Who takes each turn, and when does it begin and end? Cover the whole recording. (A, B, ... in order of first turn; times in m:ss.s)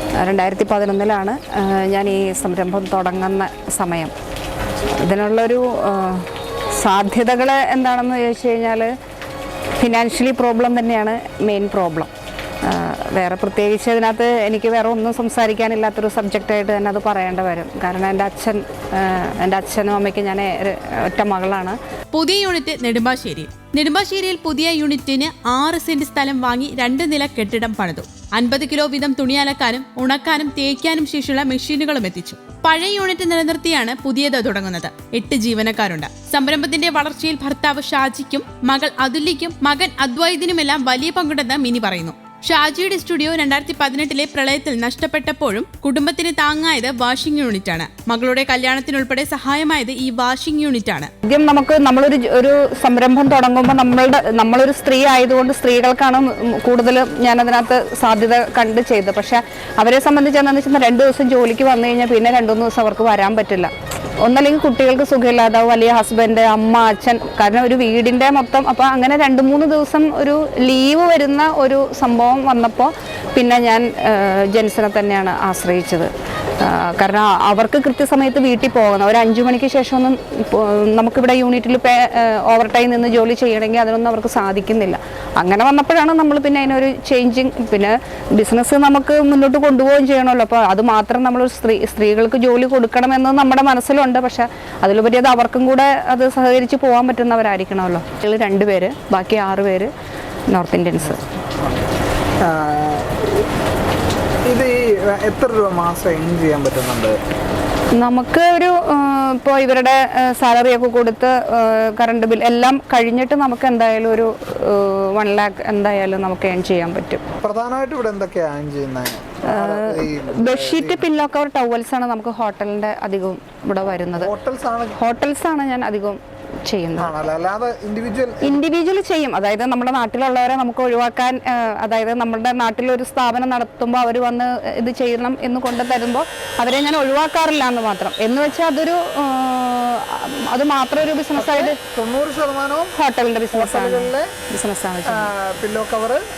0:00.2-0:04.1 A
0:05.0-0:08.9 A
0:09.8-0:12.1 A
0:12.6-0:21.8 A
0:22.1-0:51.1 B
0:51.2-1:03.7 A
1:04.2-1:16.1 A
1:16.6-1:39.9 A
1:40.5-1:41.2 A
1:42.4-1:43.3 C
1:44.5-1:47.2 C
1:48.0-1:57.2 A
1:57.4-2:01.1 C
1:59.5-2:04.3 A
2:04.2-2:05.0 C
2:05.0-2:07.1 A
2:07.0-2:08.6 C
2:08.4-2:21.8 A
2:21.4-2:22.9 C
2:23.0-2:25.3 A
2:23.5-2:24.3 C
2:25.1-2:26.2 C